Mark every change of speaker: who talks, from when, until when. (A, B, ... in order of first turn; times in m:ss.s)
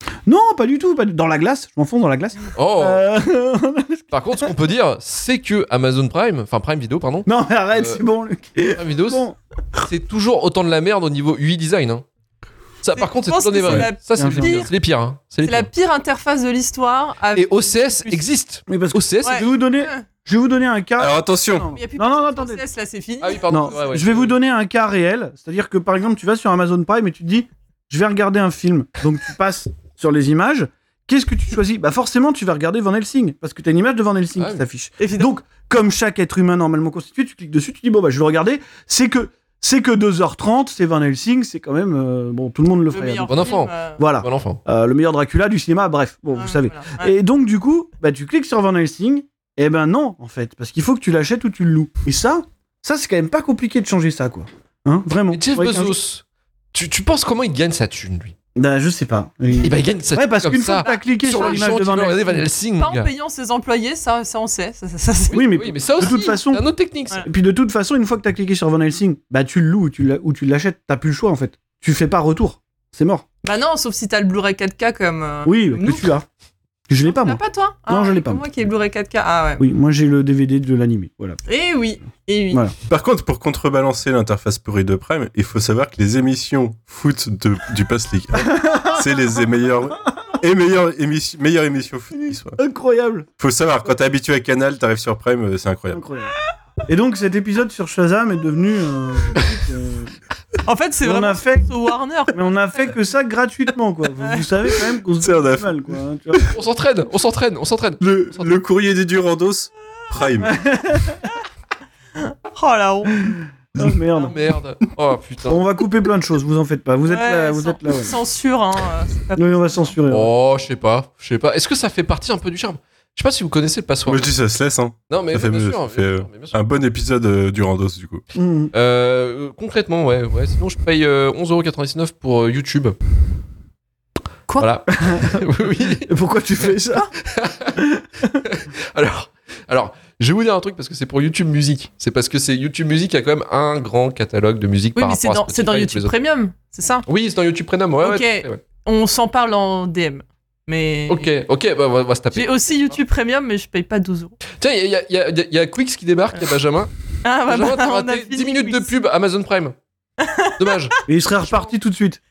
0:00.3-0:04.5 A
0:02.5-0:03.1 B
0:04.1-0:08.0 B
0:07.3-0:09.4 A
0:08.7-0:09.2 B
0:09.8-0:12.0 B
0:12.8-0:15.7 B
0:13.0-0:14.7 C
0:14.2-0:14.7 A
0:15.4-0:18.2 C
0:17.4-0:19.5 B
0:18.7-0:22.6 A
0:19.2-0:20.0 C
0:21.0-0:21.7 D
0:21.7-0:23.9 C
0:23.2-0:24.4 B
0:23.5-0:56.0 A
0:34.4-0:34.6 B
0:35.0-0:35.3 C
0:42.9-0:44.1 C
0:43.3-0:44.6 B
0:46.3-0:47.1 C
0:55.3-0:58.3 B
0:58.6-1:02.5 A
0:59.6-1:03.1 B
1:00.8-1:01.8 C
1:02.8-1:05.4 C
1:05.3-1:07.3 B
1:05.3-1:06.7 A
1:07.2-1:13.2 A
1:13.4-1:16.1 C
1:15.4-1:16.3 A
1:16.9-1:18.5 A
1:17.0-1:19.7 C
1:19.6-1:21.4 A
1:21.5-1:22.6 C
1:22.9-1:32.6 D
1:28.4-1:29.3 A
1:32.2-1:33.3 A
1:33.4-1:36.0 D
1:35.9-1:36.3 A
1:36.9-1:40.1 A
1:40.6-1:42.5 C
1:41.0-1:41.7 A
1:42.3-1:46.4 A
1:44.2-1:44.5 C
1:45.2-1:45.8 D
1:46.5-1:48.6 B
1:48.0-1:50.6 D
1:50.4-1:51.2 A
1:52.5-1:53.2 C
1:53.2-1:54.4 A
1:54.2-1:55.6 B
1:55.5-1:58.2 A
1:57.0-2:00.0 C
1:59.4-2:00.3 A
2:00.1-2:04.3 B
2:04.1-2:08.2 D
2:05.1-2:06.6 B
2:08.3-2:08.7 A
2:08.7-2:13.0 B
2:14.5-2:14.8 C
2:14.6-2:16.1 B
2:15.0-2:15.4 A
2:16.0-2:17.1 A
2:17.3-2:17.8 B
2:17.7-2:18.3 A
2:18.4-2:26.1 B
2:25.0-2:27.1 C
2:27.1-2:28.6 B
2:28.0-2:31.3 C
2:31.1-2:33.0 B
2:32.3-2:34.4 C
2:34.6-2:36.9 B
2:37.2-2:38.9 C
2:37.5-2:39.8 B
2:40.2-2:40.6 C
2:40.6-2:41.0 B
2:41.1-2:42.2 A
2:41.4-2:41.7 C